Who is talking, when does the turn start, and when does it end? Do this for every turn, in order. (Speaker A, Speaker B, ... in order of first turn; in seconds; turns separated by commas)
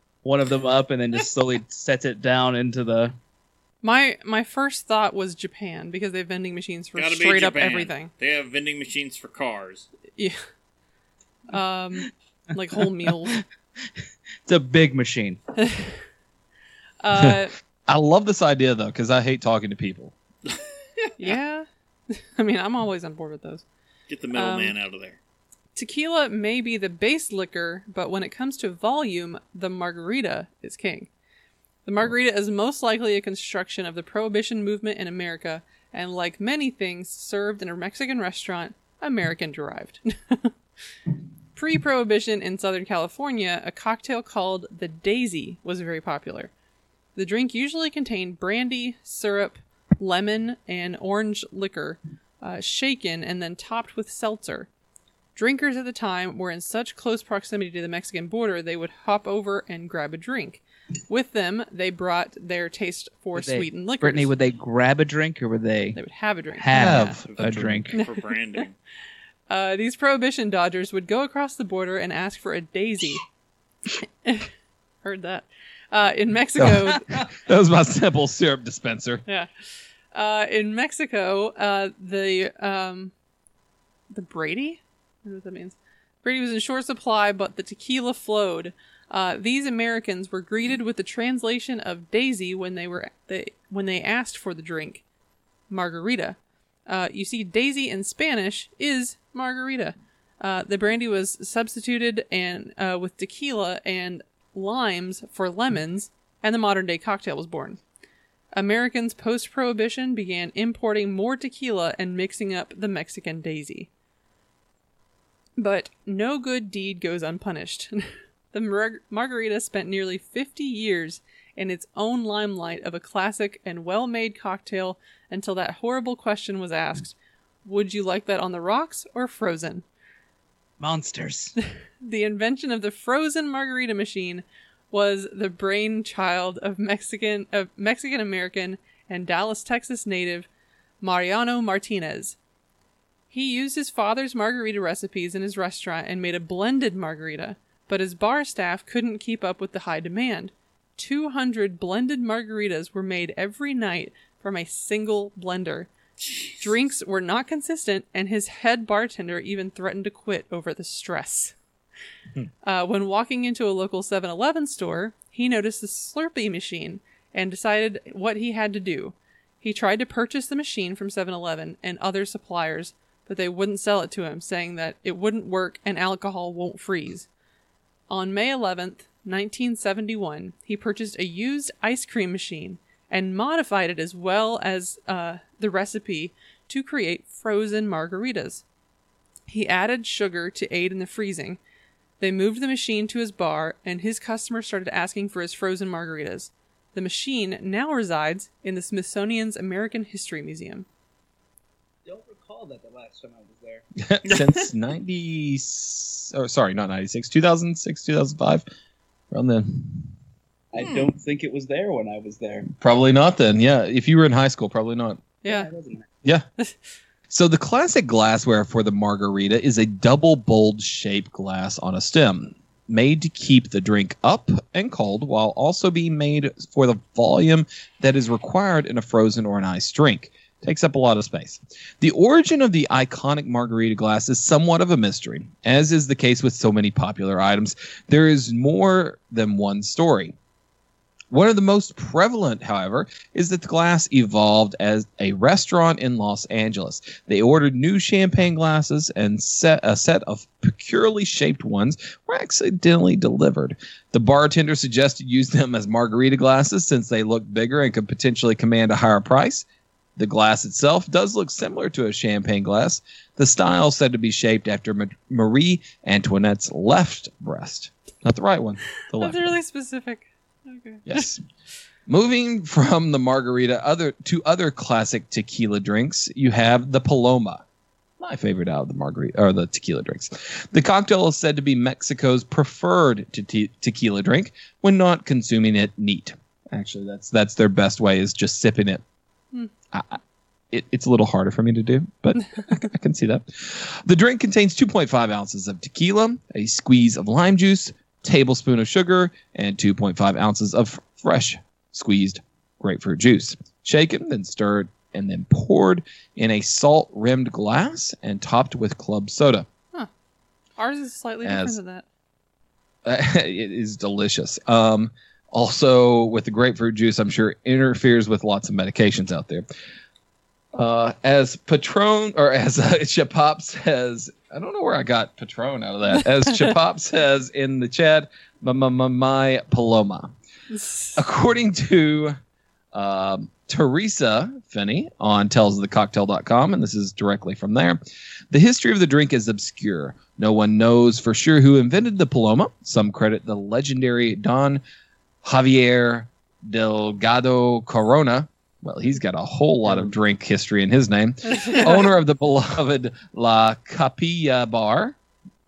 Speaker A: 0.2-3.1, Speaker B: 3.8-8.1, Speaker C: 7.0-9.9, Speaker B: 11.5-13.4, Speaker A: 14.4-15.4, Speaker B: 15.6-15.9, Speaker B: 17.0-17.5, Speaker D: 17.2-20.1, Speaker C: 20.5-21.3, Speaker B: 21.2-23.6, Speaker C: 24.1-25.2, Speaker B: 24.3-24.7, Speaker B: 25.7-31.1, Speaker B: 31.8-40.5, Speaker B: 41.5-46.5, Speaker B: 47.1-54.7, Speaker B: 55.3-64.3, Speaker A: 63.3-66.0, Speaker B: 65.9-67.2, Speaker A: 66.5-67.9, Speaker D: 66.7-67.8, Speaker C: 67.3-68.7, Speaker B: 69.5-73.2, Speaker B: 74.2-74.5, Speaker B: 75.0-77.0, Speaker D: 76.6-79.2, Speaker B: 80.1-83.1, Speaker B: 84.1-95.0, Speaker B: 95.7-96.4, Speaker B: 96.9-107.8, Speaker B: 108.5-113.9, Speaker B: 115.6-127.1, Speaker B: 127.6-129.8, Speaker A: 130.8-131.5, Speaker B: 132.0-140.5, Speaker B: 141.0-142.3, Speaker B: 143.3-155.9, Speaker C: 156.2-156.7, Speaker B: 156.6-161.5, Speaker B: 162.6-177.3, Speaker B: 178.1-188.6, Speaker B: 189.5-191.6, Speaker B: 192.2-200.8, Speaker A: 202.1-203.8, Speaker D: 204.0-208.6, Speaker C: 204.2-204.7, Speaker D: 209.3-210.1, Speaker A: 210.7-212.7, Speaker C: 210.8-211.1, Speaker D: 212.8-215.2, Speaker B: 215.4-215.7, Speaker A: 215.5-216.1, Speaker D: 217.3-240.3, Speaker D: 241.3-259.6, Speaker D: 260.2-269.5, Speaker B: 269.2-271.3, Speaker D: 271.1-271.4, Speaker D: 272.1-277.6, Speaker D: 278.2-289.0, Speaker D: 289.9-290.2, Speaker D: 290.7-309.7, Speaker B: 310.8-312.0, Speaker D: 311.4-311.8, Speaker D: 313.0-319.6, Speaker D: 320.7-330.3, Speaker B: 330.7-331.2, Speaker D: 331.1-332.4, Speaker D: 332.9-338.0, Speaker D: 338.5-344.8, Speaker D: 345.4-355.1, Speaker A: 349.9-350.1, Speaker B: 351.5-352.0